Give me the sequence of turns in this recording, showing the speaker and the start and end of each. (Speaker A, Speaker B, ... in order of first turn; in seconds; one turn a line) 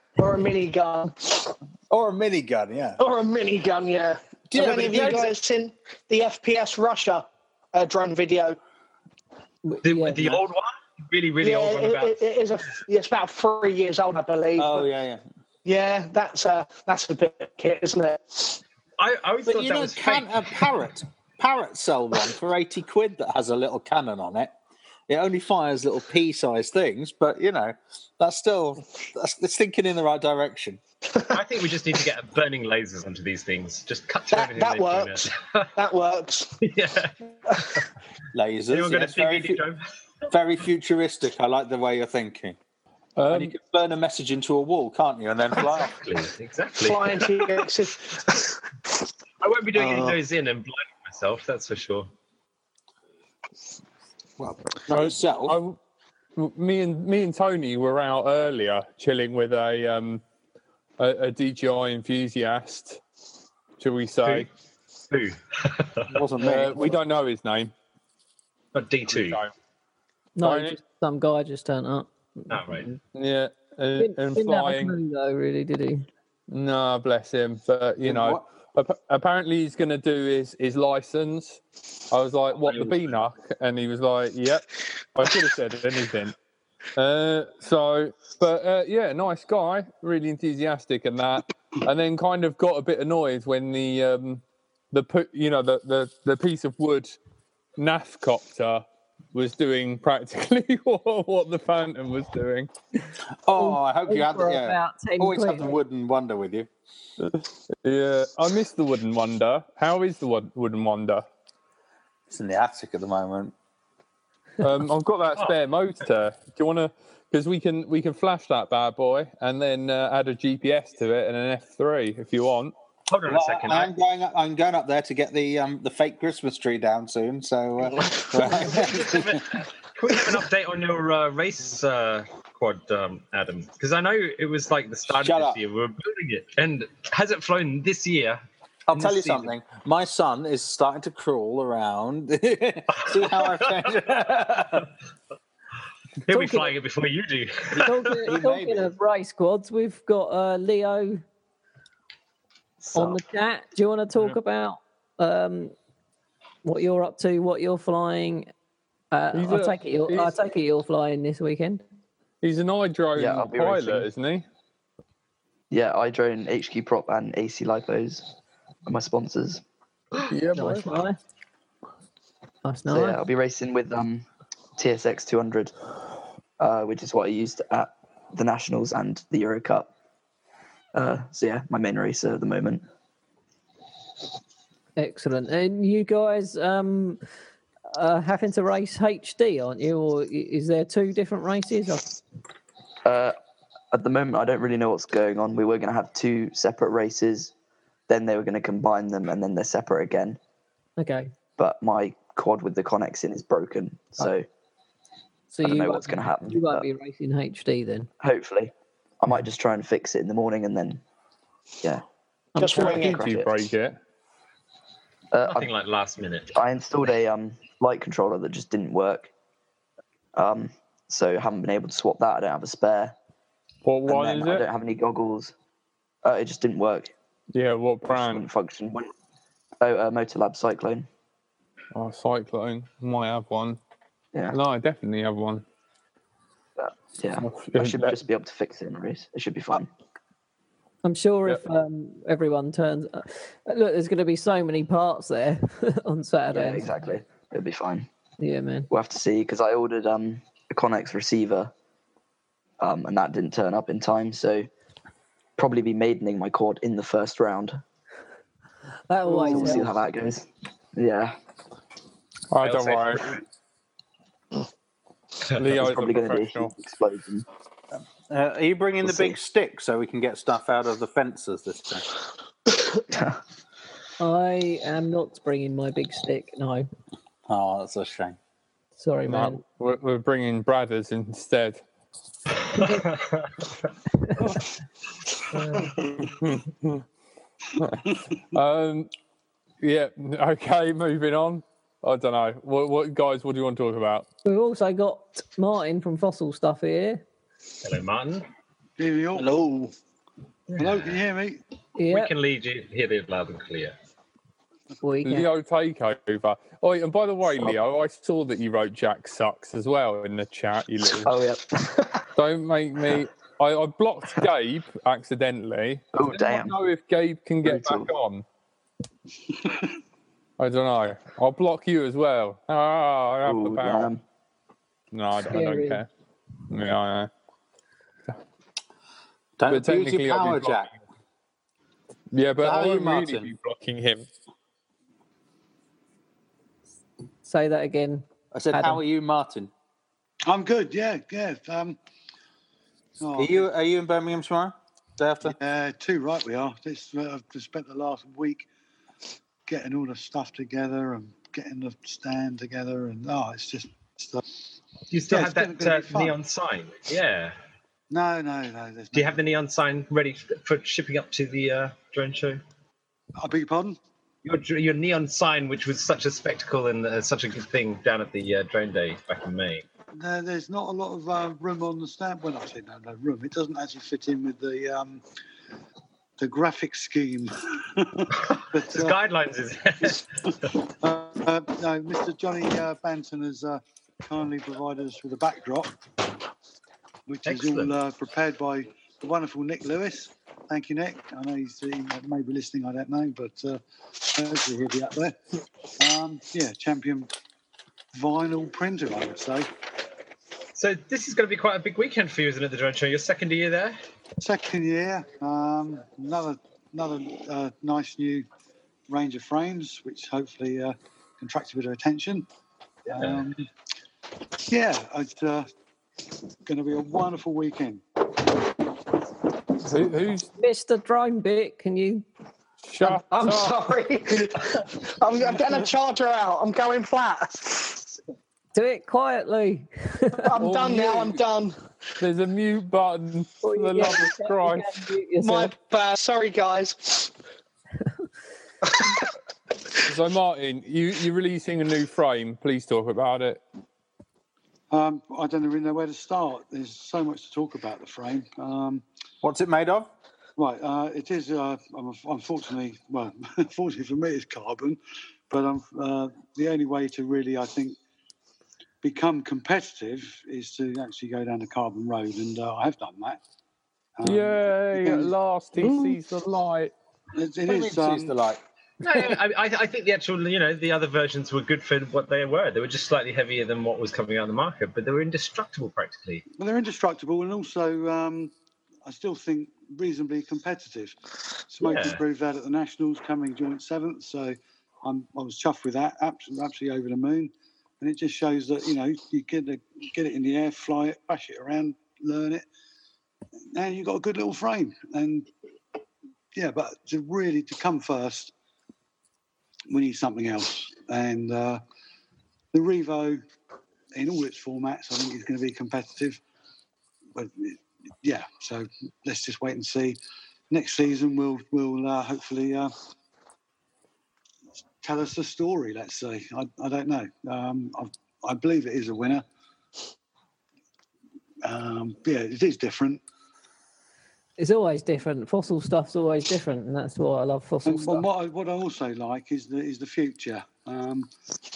Speaker A: 0.2-1.6
Speaker B: 1.9-3.0
Speaker A: 3.0-8.6
Speaker B: 4.5-5.3
Speaker C: 9.6-10.4
Speaker D: 9.8-12.2
Speaker A: 11.4-14.9
Speaker B: 14.6-15.2
Speaker A: 15.7-18.6
Speaker D: 19.0-20.7
Speaker B: 19.5-24.5
Speaker B: 25.1-30.8
Speaker D: 31.3-35.7
Speaker A: 34.3-36.6
Speaker D: 36.6-37.1
Speaker B: 38.3-39.6
Speaker D: 38.7-39.8
Speaker B: 40.3-42.6
Speaker E: 43.2-43.6
Speaker B: 43.3-46.0
Speaker D: 46.0-47.5
Speaker A: 46.8-48.6
Speaker D: 49.4-52.1
Speaker A: 49.8-50.1
Speaker B: 54.4-55.6
Speaker E: 54.9-55.8
Speaker E: 56.4-60.2
Speaker E: 61.0-63.0
Speaker E: 63.8-64.5
Speaker D: 65.1-66.1
Speaker B: 66.1-67.0
Speaker E: 66.4-67.7
Speaker D: 68.7-69.4
Speaker E: 69.1-69.5
Speaker C: 70.4-72.9
Speaker E: 70.4-70.8
Speaker D: 72.5-72.9
Speaker E: 73.1-75.0
Speaker C: 74.0-76.1
Speaker E: 76.5-84.6
Speaker B: 78.0-78.5
Speaker E: 85.2-86.3
Speaker E: 87.0-97.1
Speaker E: 97.8-102.7
Speaker B: 103.4-106.7
Speaker C: 103.6-105.8
Speaker E: 107.2-111.2
Speaker B: 112.3-113.5
Speaker E: 114.6-122.7
Speaker D: 123.1-123.9
Speaker B: 123.3-129.4
Speaker D: 128.4-138.4
Speaker B: 135.1-135.6
Speaker B: 138.9-144.9
Speaker D: 138.9-139.5
Speaker D: 143.0-144.3
Speaker C: 146.3-146.7
Speaker D: 146.3-148.2
Speaker C: 147.8-151.2
Speaker B: 148.2-148.9
Speaker D: 152.8-153.2
Speaker C: 152.9-155.7
Speaker C: 156.6-158.5
Speaker C: 159.1-161.8
Speaker E: 159.3-160.3
Speaker E: 162.4-164.4
Speaker F: 163.2-164.1
Speaker F: 165.7-168.3
Speaker F: 168.9-169.6
Speaker E: 170.3-170.9
Speaker C: 170.5-171.2
Speaker C: 172.7-173.2
Speaker F: 172.9-174.3
Speaker F: 174.8-175.7
Speaker F: 176.6-179.9
Speaker F: 180.9-182.8
Speaker C: 185.0-187.2
Speaker C: 187.9-192.1
Speaker F: 193.1-193.4
Speaker F: 193.9-197.5
Speaker F: 198.1-200.4
Speaker C: 201.0-201.3
Speaker F: 201.6-204.5
Speaker C: 205.5-208.1
Speaker F: 205.6-206.9
Speaker F: 208.2-211.0
Speaker A: 212.6-213.2
Speaker E: 212.6-214.0
Speaker F: 212.8-213.6
Speaker F: 215.3-215.7
Speaker D: 215.4-216.5
Speaker F: 216.5-219.3
Speaker F: 220.3-223.2
Speaker E: 223.8-224.7
Speaker F: 224.1-225.5
Speaker F: 226.2-227.1
Speaker E: 227.5-228.5
Speaker F: 228.1-229.1
Speaker F: 229.8-231.1
Speaker E: 231.9-233.8
Speaker E: 234.5-235.6
Speaker F: 236.8-239.9
Speaker E: 237.4-238.2
Speaker C: 241.0-246.9
Speaker F: 246.5-248.1
Speaker C: 248.4-248.9
Speaker F: 248.9-251.7
Speaker F: 252.8-254.7
Speaker F: 255.6-257.8
Speaker C: 259.1-259.9
Speaker F: 259.3-261.4
Speaker E: 262.5-263.3
Speaker D: 262.6-263.4
Speaker E: 265.5-266.7
Speaker F: 265.8-267.5
Speaker B: 268.3-272.1
Speaker F: 269.0-269.4
Speaker F: 273.1-273.4
Speaker C: 274.2-276.9
Speaker B: 277.5-278.4
Speaker C: 279.0-279.6
Speaker E: 279.3-281.8
Speaker C: 282.8-283.0
Speaker D: 283.0-283.2
Speaker C: 284.3-284.6
Speaker C: 285.5-285.9
Speaker E: 286.1-287.0
Speaker E: 287.8-289.1
Speaker E: 289.8-294.3
Speaker C: 294.4-297.2
Speaker D: 297.8-298.5
Speaker G: 299.0-299.9
Speaker D: 300.7-301.2
Speaker G: 300.8-301.6
Speaker C: 302.0-302.3
Speaker D: 302.1-303.9
Speaker C: 305.0-305.5
Speaker E: 305.2-311.4
Speaker F: 311.2-312.2
Speaker E: 312.4-318.4
Speaker F: 316.1-316.7
Speaker F: 317.6-318.1
Speaker E: 320.6-324.1
Speaker F: 323.4-324.2
Speaker E: 325.1-326.1
Speaker C: 325.5-326.0
Speaker E: 326.7-327.3
Speaker B: 329.6-330.9
Speaker E: 329.7-330.9
Speaker E: 332.3-334.3
Speaker B: 332.6-333.5
Speaker C: 337.4-339.0
Speaker B: 338.5-339.7
Speaker G: 340.5-342.0
Speaker G: 343.2-343.7
Speaker B: 343.4-345.5
Speaker G: 345.4-348.7
Speaker G: 349.7-354.4
Speaker D: 355.1-357.6
Speaker G: 355.3-356.4
Speaker G: 358.1-359.4
Speaker D: 359.1-362.6
Speaker G: 363.4-364.0
Speaker D: 364.4-369.9
Speaker G: 370.1-375.2
Speaker G: 376.4-379.2
Speaker D: 378.5-380.2
Speaker G: 381.0-385.9
Speaker G: 387.3-395.4
Speaker D: 387.4-387.9
Speaker G: 396.0-397.3
Speaker G: 398.1-399.7
Speaker D: 400.8-404.0
Speaker G: 404.4-408.5
Speaker G: 409.1-412.5
Speaker G: 413.1-413.7
Speaker D: 413.2-413.4
Speaker G: 414.7-415.7
Speaker G: 416.6-418.0
Speaker E: 419.8-420.5
Speaker C: 420.6-422.3
Speaker E: 422.9-423.8
Speaker A: 423.0-428.1
Speaker C: 428.8-430.5
Speaker A: 430.3-431.8
Speaker E: 430.6-431.4
Speaker E: 432.2-434.9
Speaker C: 433.6-435.7
Speaker A: 435.4-437.3
Speaker A: 438.9-439.2
Speaker E: 440.1-443.6
Speaker G: 444.9-449.0
Speaker B: 449.4-450.1
Speaker G: 450.6-458.0
Speaker G: 459.0-463.4
Speaker G: 464.2-465.3
Speaker E: 464.2-466.9
Speaker G: 467.3-468.3
Speaker B: 467.7-468.6
Speaker D: 469.0-476.4
Speaker G: 476.6-478.5
Speaker G: 479.1-481.2
Speaker G: 481.7-492.6
Speaker D: 481.8-482.2
Speaker G: 493.7-495.5
Speaker G: 496.6-498.5
Speaker G: 499.9-501.8
Speaker G: 502.7-503.4
Speaker G: 504.1-506.4
Speaker G: 507.4-510.2
Speaker G: 510.7-512.9
Speaker G: 515.0-519.5
Speaker G: 521.6-523.2
Speaker C: 524.6-528.2
Speaker G: 527.9-531.3